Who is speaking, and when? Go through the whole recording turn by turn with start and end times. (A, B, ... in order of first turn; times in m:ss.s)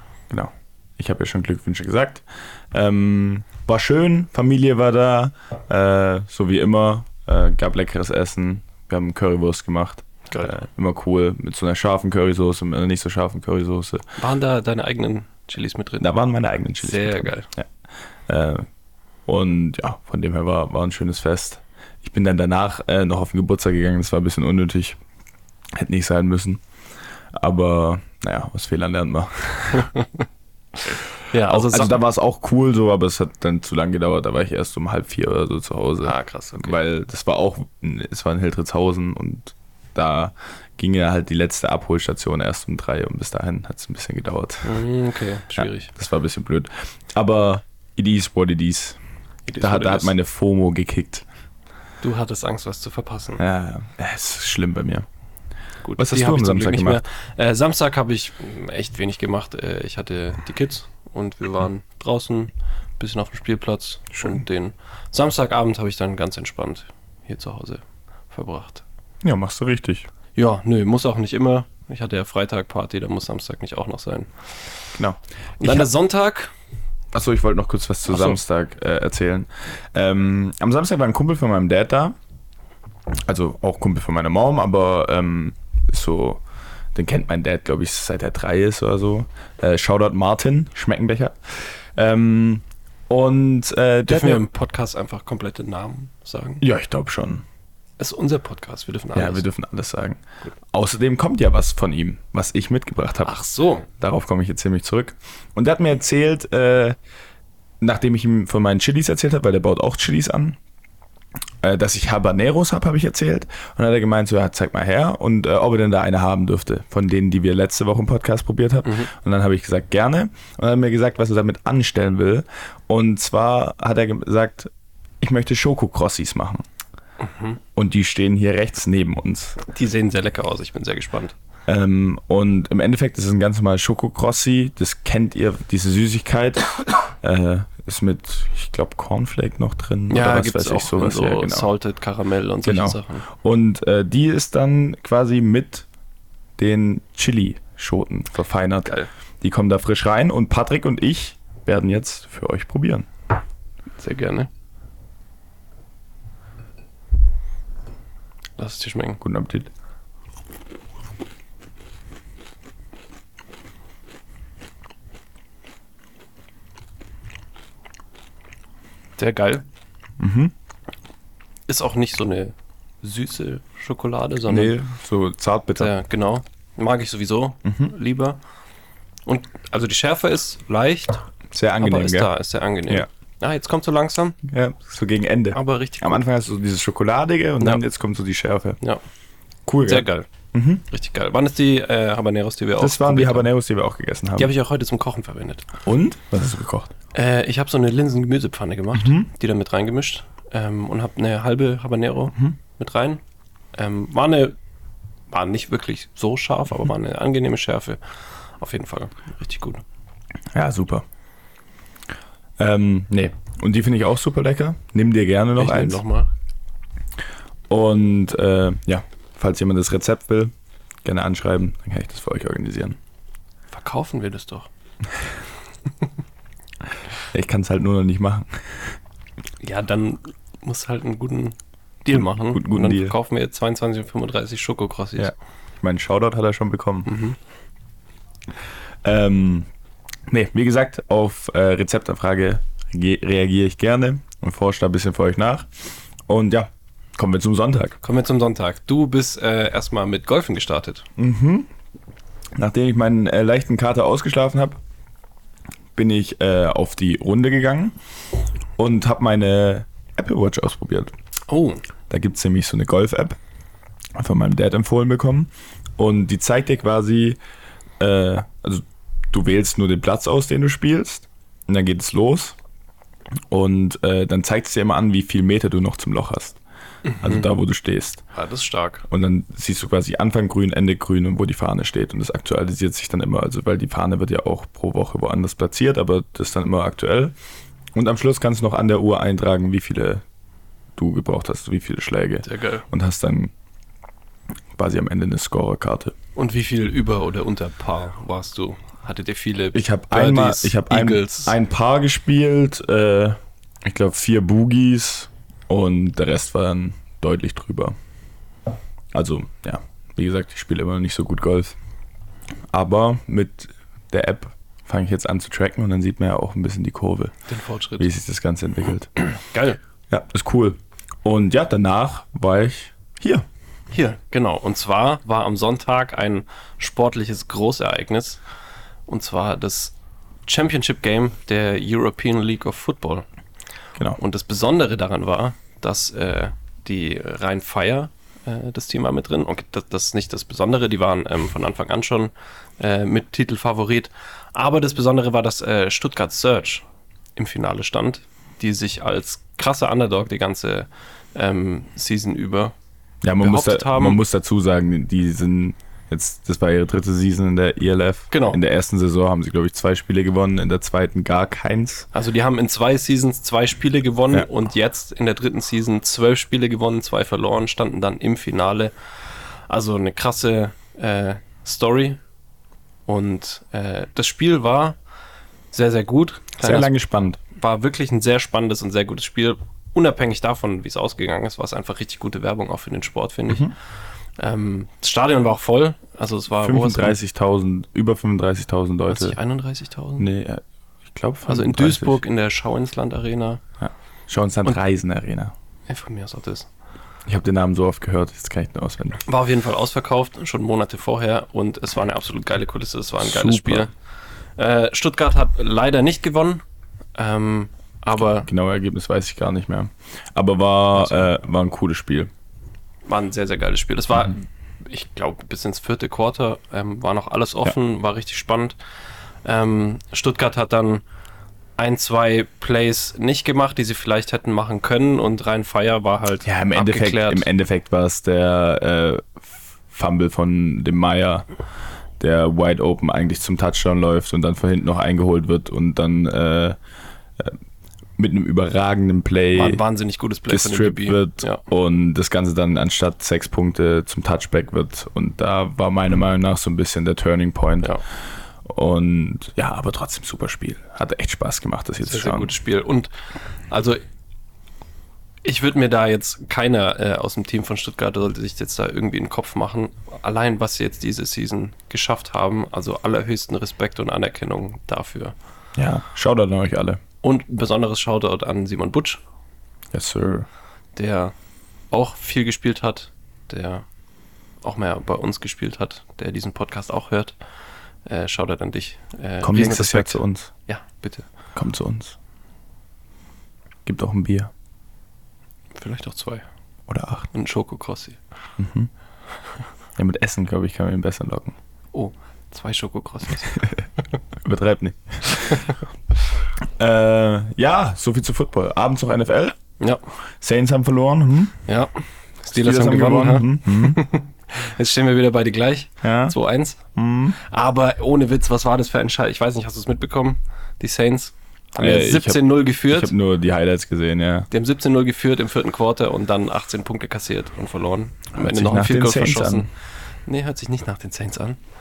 0:00.3-0:14.0 A
0:10.3-0:10.6 B
0:14.2-0:16.1 B
0:16.0-0:17.7 A
0:16.8-0:17.5 B
0:18.3-0:18.7 A
0:19.3-0:25.0 A
0:25.8-0:26.6 A
0:27.3-0:29.9 A
0:29.7-0:30.2 B
0:31.3-0:32.0 B
0:31.4-0:44.8 A
0:36.0-0:36.8 B
0:44.6-0:45.9 B
0:45.6-0:49.0 A
0:49.5-0:50.1 B
0:49.6-0:51.2 A
0:52.0-0:53.4 B
0:53.4-0:55.1 A
0:55.8-1:08.8 B
0:56.0-0:57.0 A
1:09.2-1:10.1 A
1:10.4-1:14.3 B
1:15.0-1:15.9 A
1:15.6-1:16.5 B
1:17.1-1:22.2 A
1:18.1-1:18.4 B
1:23.1-1:26.4 A
1:27.0-1:34.4 A
1:34.1-1:36.6 B
1:36.6-1:37.4 A
1:38.0-1:39.5 B
1:39.1-1:43.4 A
1:43.2-1:43.9 B
1:44.0-1:47.0 A
1:47.8-1:50.6 A
1:51.6-2:06.6 A
1:58.8-1:59.1 B
2:07.2-2:07.6 B
2:07.8-2:09.6 A
2:09.7-2:11.4 B
2:11.7-2:21.7 A
2:20.1-2:23.3 B
2:22.6-2:25.9 A
2:26.6-2:33.1 A
2:34.0-2:34.5 B
2:38.6-2:39.2 B
2:39.2-2:39.7 A
2:49.2-2:49.6 B
2:50.2-2:50.5 A
2:51.7-2:54.8 B
2:54.5-2:55.9 A
2:55.8-2:58.4 B
2:59.3-3:01.2 B
3:01.5-3:02.3 A
3:01.8-3:04.4 B
3:04.4-3:08.8 A
3:05.5-3:06.2 B
3:09.7-3:10.8 A
3:09.8-3:10.3 B
3:10.9-3:13.5 B
3:12.8-3:14.5 A
3:14.4-3:15.7 B
3:15.8-3:16.9 A
3:17.1-3:23.2 B
3:18.9-3:19.3 A
3:23.8-3:24.6 B
3:25.3-3:28.0 B
3:28.6-3:29.8 B
3:30.5-3:31.0 A
3:32.6-3:36.0 A
3:35.6-3:36.3 B
3:37.7-3:40.5 A
3:41.0-3:43.0 A
3:43.7-3:44.7 B
3:47.3-3:49.0 A
3:49.6-3:55.3 B
3:52.1-3:53.2 A
3:55.2-3:57.1 A
3:57.1-3:57.4 B
3:59.0-3:59.7 A
4:00.3-4:05.7 A
4:06.3-4:08.0 A
4:08.0-4:11.1 B
4:11.2-4:11.7 A
4:12.6-4:14.8 A
4:16.0-4:18.0 A
4:18.8-4:21.1 A
4:21.5-4:21.8 B
4:22.1-4:23.4 A
4:24.2-4:27.4 A
4:28.0-4:32.6 A
4:33.5-4:36.6 A
4:37.0-4:37.5 B
4:37.2-4:38.2 A
4:38.3-4:39.0 B
4:39.1-4:47.4 A
4:48.0-4:50.2 A
4:51.0-4:53.5 A
4:52.4-4:52.8 B
4:54.8-4:56.2 A
4:56.4-5:01.6 B
4:59.7-5:08.0 A
5:09.1-5:11.8 A
5:12.7-5:17.3 A
5:17.5-5:18.1 B
5:18.0-5:19.1 A
5:19.3-5:19.8 B
5:20.1-5:23.5 A
5:23.9-5:28.4 B
5:29.1-5:29.9 B
5:30.5-5:33.3 B
5:34.2-5:46.8 B
5:47.4-5:52.7 B
5:53.2-6:02.1 A
5:53.4-5:54.2 B
5:58.3-5:58.6 B
6:02.1-6:08.9 B
6:09.7-6:12.2 B
6:13.1-6:15.0 B
6:15.7-6:16.9 B
6:16.6-6:17.4 A
6:17.6-6:23.7 B
6:24.4-6:27.2 B
6:26.6-6:29.4 A
6:29.1-6:30.3 B
6:30.2-6:32.2 A
6:31.5-6:33.6 B
6:33.8-6:35.5 A
6:35.9-6:36.7 B
6:37.3-6:39.2 A
6:39.3-6:43.9 B
6:43.2-6:43.9 A
6:44.6-6:46.6 B
6:47.2-6:48.5 B
6:48.4-6:52.3 A
6:51.0-6:51.3 B
6:53.1-6:58.8 B
6:59.4-7:01.0 B
7:01.8-7:07.5 B
7:06.4-7:11.5 A
7:12.2-7:16.8 A
7:18.2-7:19.8 A
7:19.5-7:21.6 B
7:20.5-7:28.0 A
7:28.6-7:32.5 A
7:32.0-7:33.1 B
7:33.7-7:34.0 B
7:35.4-7:45.4 B
7:45.8-7:47.0 A
7:47.2-7:49.2 B
7:49.9-7:50.5 A
7:51.0-7:51.4 B
7:51.9-7:53.9 B
7:54.6-7:57.4 B
7:58.1-8:01.3 B
7:59.4-8:00.5 A
8:01.6-8:02.2 A
8:03.8-8:04.5 A
8:05.8-8:06.5 B
8:06.9-8:07.3 A
8:07.3-8:08.2 B
8:08.6-8:08.9 A
8:10.0-8:11.6 A
8:11.9-8:13.8 B
8:14.4-8:15.7 A
8:15.4-8:15.7 B
8:16.6-8:19.6 A
8:20.4-8:21.6 A
8:21.7-8:26.8 B
8:22.5-8:24.0 A
8:26.0-8:26.4 A
8:27.0-8:27.4 A
8:27.4-8:33.1 B
8:31.8-8:34.5 A
8:34.5-8:39.7 B
8:38.4-8:39.7 A
8:40.3-8:41.6 B